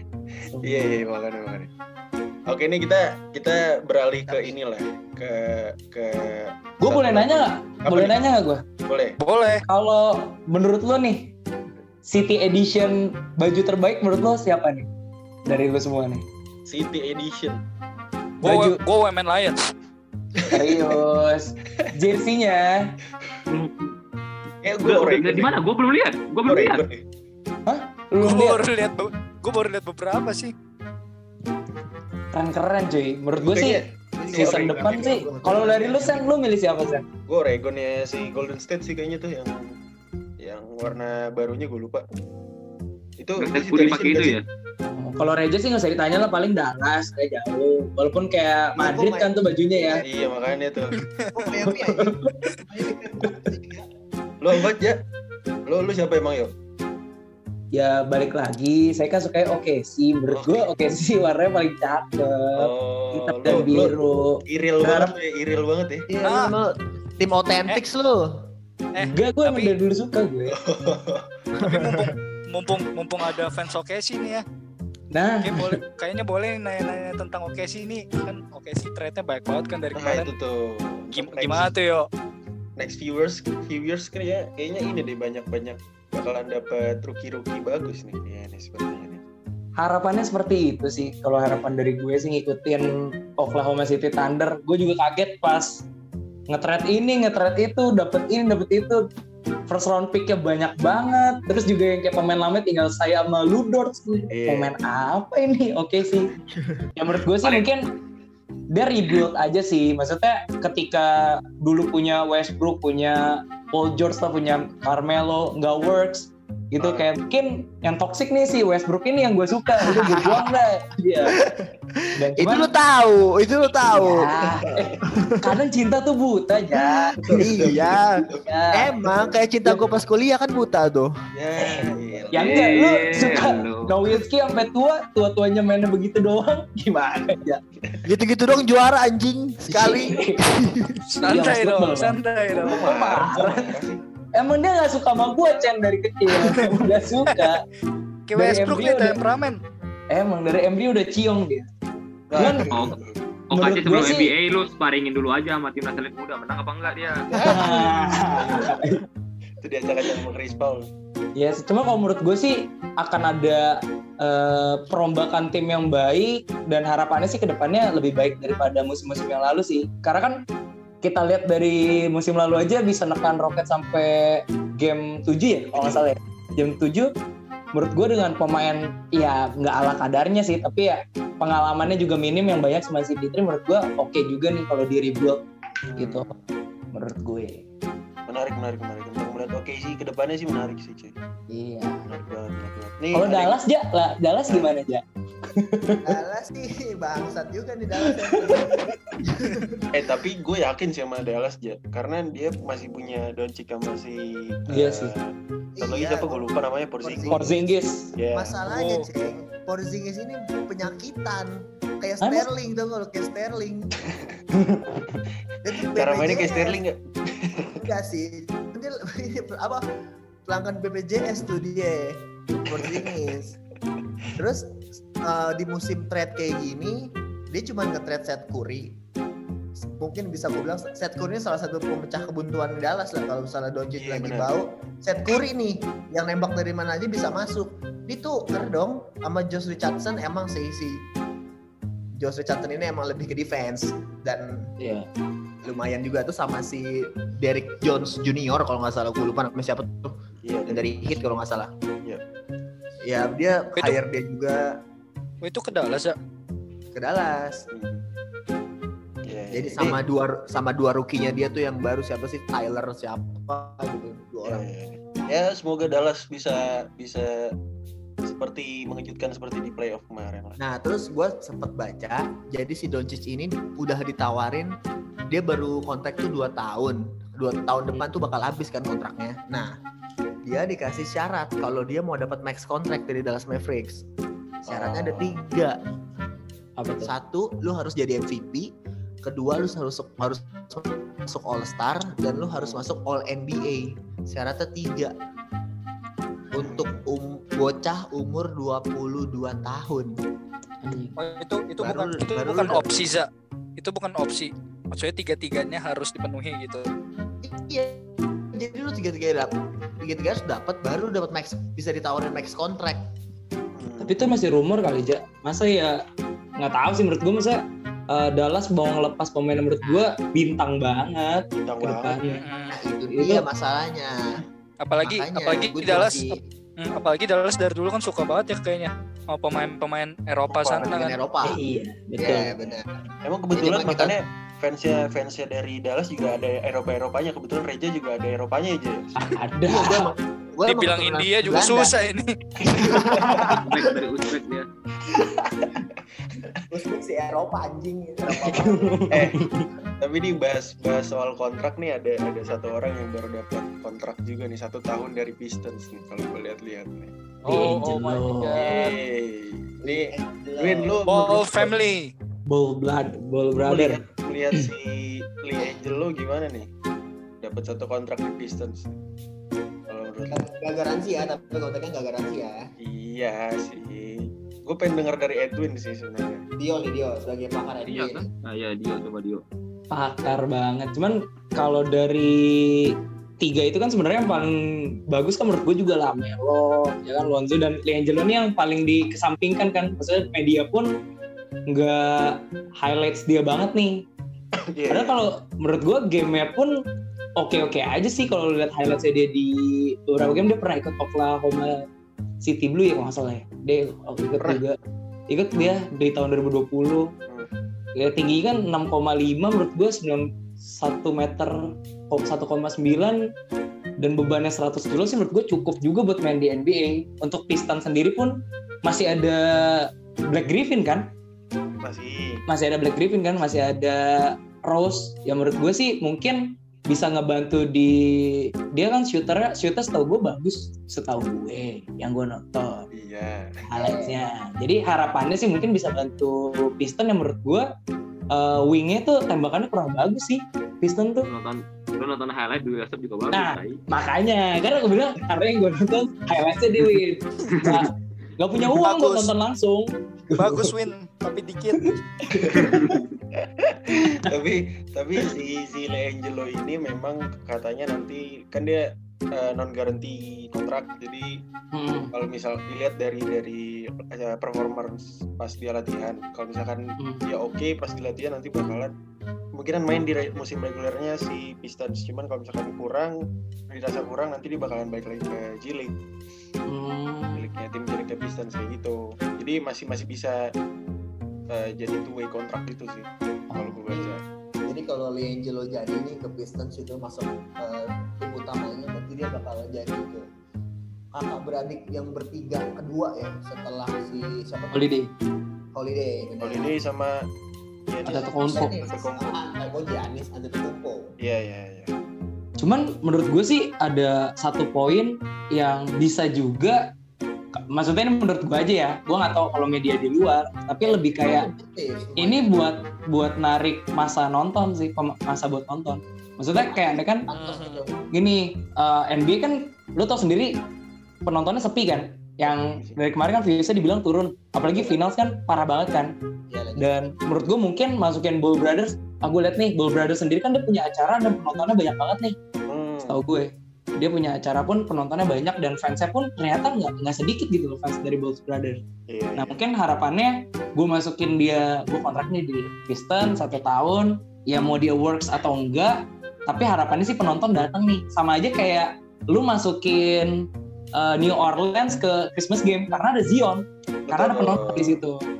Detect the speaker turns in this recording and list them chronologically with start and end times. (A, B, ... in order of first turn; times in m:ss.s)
0:00.5-0:00.9 A
0:00.6-0:01.7 B
0:02.5-0:08.2 B
0:04.3-0:04.6 C
0:06.8-0:08.6 A
0:08.9-0:09.2 B
0:09.2-0:09.6 D
0:09.7-0:11.3 A
0:12.0-0:14.9 A
0:15.4-0:16.2 A
0:16.6-0:17.6 B
0:18.4-0:19.6 D
0:18.4-0:18.8 A
0:20.4-0:20.9 B
0:20.5-0:22.9 A
0:23.5-0:23.9 E
0:24.6-0:25.6 B
0:24.8-0:26.8 E
0:26.5-0:27.0 B
0:27.7-0:28.6 A
0:28.2-0:30.5 D
0:32.3-0:37.0 A
0:33.3-0:35.2 B
0:34.2-0:36.3 C
0:37.3-0:39.7 B
0:40.4-0:42.0 B
0:43.2-0:44.4 B
0:43.4-0:44.4 E
0:44.8-0:50.0 A
0:48.8-0:50.0 C
0:50.0-0:51.0 B
0:51.0-0:51.4 D
0:51.4-0:53.9 C
0:51.6-0:52.3 A
0:54.4-0:55.0 B
0:55.6-0:56.5 B
0:57.7-1:05.1 A
1:00.3-1:00.7 B
1:02.6-1:03.9 B
1:04.5-1:06.1 B
1:06.1-1:08.4 C
1:06.2-1:06.5 D
1:09.0-1:09.8 D
1:09.0-1:10.6 A
1:10.6-1:11.2 B
1:11.6-1:14.4 D
1:11.6-1:12.1 C
1:15.1-1:15.7 A
1:15.4-1:20.3 D
1:20.0-1:21.7 B
1:21.1-1:22.1 D
1:22.8-1:29.2 B
1:29.8-1:35.8 A
1:36.5-1:39.0 A
1:39.7-1:46.3 A
1:44.3-1:44.7 B
1:47.0-1:47.9 A
1:48.7-2:01.4 A
1:56.8-1:57.0 B
1:59.8-2:00.5 C
2:01.4-2:04.3 C
2:02.2-2:02.7 A
2:03.9-2:07.4 A
2:05.1-2:05.4 C
2:06.8-2:08.2 C
2:07.2-2:08.4 B
2:08.4-2:09.0 A
2:08.7-2:11.1 C
2:11.3-2:12.7 B
2:12.3-2:17.6 A
2:12.4-2:13.9 E
2:18.0-2:21.0 C
2:19.7-2:20.4 A
2:21.1-2:23.3 D
2:21.2-2:23.8 A
2:22.5-2:24.0 B
2:24.4-2:27.6 A
2:26.4-2:26.7 D
2:27.3-2:27.5 D
2:28.3-2:29.6 D
2:28.4-2:29.2 A
2:30.1-2:31.7 A
2:32.3-2:33.2 B
2:32.4-2:32.8 A
2:32.6-2:33.0 E
2:33.5-2:37.3 E
2:33.5-2:34.3 A
2:37.3-2:37.6 B
2:37.3-2:38.5 C
2:37.4-2:39.0 A
2:38.4-2:38.7 B
2:39.6-2:40.9 B
2:41.4-2:50.4 A
2:51.0-2:57.1 A
2:55.8-2:56.1 B
2:57.7-3:05.4 A
3:05.9-3:06.5 B
3:06.0-3:06.3 A
3:06.9-3:07.6 A
3:08.3-3:11.1 B
3:11.5-3:12.0 A
3:12.1-3:13.6 B
3:13.1-3:16.2 A
3:14.5-3:14.7 B
3:16.0-3:19.9 C
3:19.9-3:28.5 B
3:24.7-3:25.1 A
3:25.8-3:26.5 C
3:27.0-3:27.7 C
3:27.3-3:28.1 A
3:28.3-3:34.0 C
3:28.7-3:29.1 D
3:32.2-3:32.5 A
3:35.6-3:36.8 C
3:35.9-3:37.8 B
3:37.8-3:39.8 C
3:40.5-3:43.6 C
3:42.7-3:43.1 B
3:44.4-3:49.0 C
3:49.8-4:01.1 C
3:54.0-3:54.5 B
4:02.2-4:04.7 C
4:04.8-4:05.1 A
4:05.6-4:10.1 C
4:10.4-4:10.9 B
4:10.7-4:11.7 C
4:13.0-4:14.7 C
4:15.4-4:16.1 D
4:16.9-4:17.6 C
4:17.7-4:18.0 B
4:19.2-4:20.0 B
4:19.5-4:24.6 C
4:24.4-4:27.5 B
4:28.2-4:30.6 B
4:30.6-4:34.7 C
4:35.3-4:39.7 C
4:40.4-4:44.0 C
4:44.6-4:45.7 C
4:44.7-4:45.4 B
4:46.8-4:47.1 A
4:47.0-4:48.7 C
4:49.2-4:55.1 C
4:52.6-4:52.8 B
4:56.5-5:00.1 C
4:56.6-4:56.9 B
5:00.8-5:01.2 A
5:01.2-5:03.3 D
5:01.8-5:02.9 C
5:03.8-5:06.8 D
5:07.4-5:08.0 C
5:08.5-5:09.5 C
5:10.0-5:13.1 C
5:13.7-5:14.3 B
5:14.0-5:16.0 A
5:16.6-5:22.4 A
5:21.5-5:22.2 B
5:22.3-5:22.8 D
5:22.7-5:24.1 C
5:23.2-5:23.4 A
5:24.8-5:31.2 D
5:25.0-5:26.4 C
5:30.6-5:30.9 B
5:30.7-5:31.6 C
5:31.4-5:32.6 A
5:32.2-5:34.2 C
5:33.2-5:39.2 B
5:39.2-5:40.1 A
5:39.6-5:42.0 C
5:40.7-5:43.0 D
5:42.6-5:43.8 C
5:43.6-5:44.7 E
5:45.1-5:45.8 B
5:46.7-5:49.1 C
5:48.4-5:49.7 A
5:49.1-5:49.4 B
5:50.0-5:57.1 B
5:57.4-5:58.6 A
5:57.4-5:58.9 D
5:58.6-6:01.7 B
5:59.8-6:01.0 C
6:01.1-6:02.1 D
6:02.5-6:04.0 A
6:03.6-6:06.7 B
6:07.4-6:08.9 B
6:09.9-6:10.4 B
6:10.3-6:12.6 C
6:12.8-6:16.4 B
6:16.6-6:18.3 C
6:17.8-6:19.4 E
6:19.9-6:22.8 A
6:23.4-6:24.6 A
6:25.1-6:30.9 A
6:31.7-6:34.0 A
6:34.6-6:35.2 B
6:34.9-6:36.7 A
6:37.4-6:41.8 A
6:42.4-6:44.8 A
6:45.3-6:47.1 A
6:48.0-6:53.2 A
6:54.0-7:01.1 A
7:01.8-7:02.4 B
7:02.5-7:12.9 A
7:12.9-7:13.6 B
7:13.7-7:14.2 C
7:13.7-7:17.7 A
7:18.3-7:21.3 A
7:21.2-7:23.8 E
7:23.3-7:30.7 A
7:28.6-7:29.3 D
7:30.4-7:31.9 D
7:31.8-7:33.0 A
7:32.3-7:32.8 B
7:33.4-7:41.4 B
7:41.7-7:42.1 A
7:42.1-7:48.9 B
7:47.0-7:47.2 A
7:49.5-7:53.2 B
7:53.7-7:55.9 B
7:56.7-7:57.5 A
7:57.3-8:00.5 B
8:01.5-8:04.2 B
8:03.5-8:03.8 A
8:04.6-8:10.2 C
8:11.1-8:14.9 C
8:14.7-8:15.1 A
8:15.7-8:16.7 C
8:16.4-8:17.2 B
8:17.9-8:19.4 B
8:18.1-8:18.8 A
8:18.1-8:21.1 C
8:21.2-8:21.9 B
8:22.6-8:26.9 A
8:27.6-8:31.5 A
8:30.8-8:32.6 C
8:32.2-8:37.3 A
8:36.5-8:37.9 C
8:37.3-8:37.8 D
8:38.1-8:40.5 A
8:41.3-8:46.1 A
8:46.5-8:46.9 C
8:46.8-8:52.4 A
8:52.7-8:53.2 B
8:53.1-8:58.8 A
8:59.1-8:59.6 B
8:59.4-9:10.4 A
9:11.0-9:15.2 A
9:14.1-9:15.0 B